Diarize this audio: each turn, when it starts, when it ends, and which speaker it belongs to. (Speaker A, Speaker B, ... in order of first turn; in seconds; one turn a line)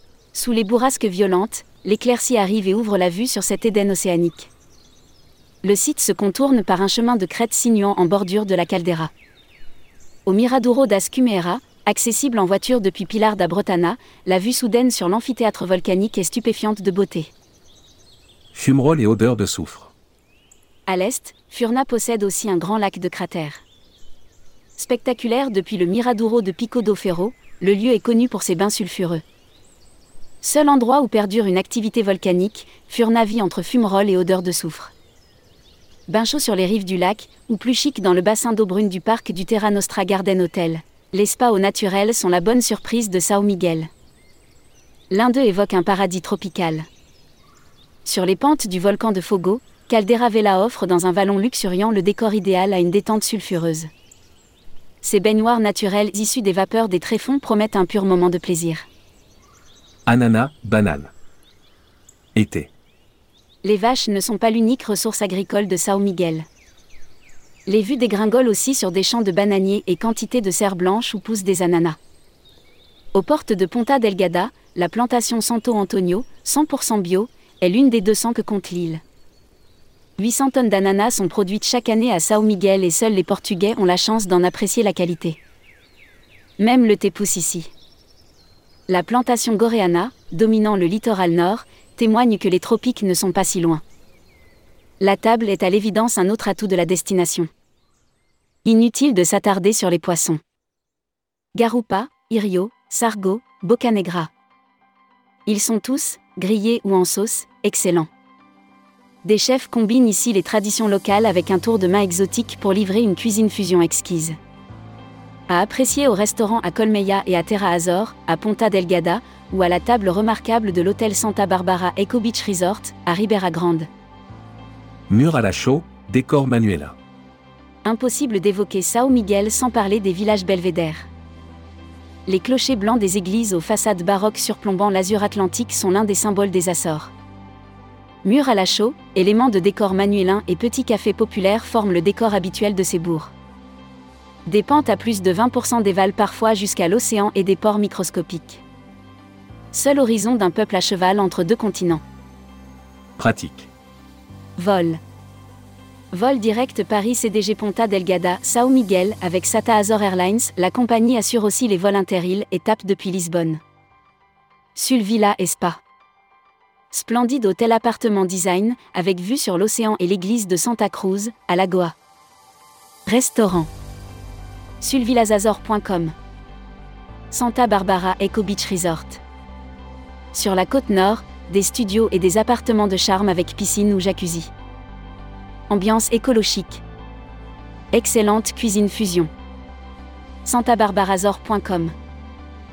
Speaker A: 0.3-4.5
Speaker A: 5.6-9.1
Speaker A: 10.2-17.3
Speaker B: 18.5-19.9
Speaker A: 20.9-23.6
Speaker A: 24.8-29.2
Speaker A: 30.4-34.9
Speaker A: 36.1-43.9
Speaker A: 45.1-46.9
Speaker A: 48.0-53.9
Speaker A: 55.0-58.9
Speaker B: 60.1-61.1
Speaker B: 62.4-62.7
Speaker A: 63.6-66.5
Speaker A: 67.7-72.0
Speaker A: 73.1-79.0
Speaker A: 80.2-85.4
Speaker A: 86.6-87.7
Speaker A: 88.9-93.8
Speaker A: 95.0-97.5
Speaker A: 98.6-100.4
Speaker A: 101.5-104.3
Speaker A: 105.5-108.1
Speaker A: 109.2-114.4
Speaker A: 115.5-123.9
Speaker B: 125.1-127.0
Speaker A: 127.8-131.1
Speaker A: 132.3-137.1
Speaker A: 138.2-143.3
Speaker A: 144.5-148.6
Speaker A: 149.7-152.0
Speaker B: 153.2-153.7
Speaker A: 154.6-155.0
Speaker A: 156.1-163.6
Speaker A: 164.8-165.8
Speaker A: 166.9-171.9
Speaker A: 173.1-173.7
Speaker A: 174.8-176.2
Speaker A: 177.3-179.2
Speaker A: 180.3-184.5
Speaker A: 185.7-186.8
Speaker A: 187.9-189.3
Speaker A: 190.4-191.9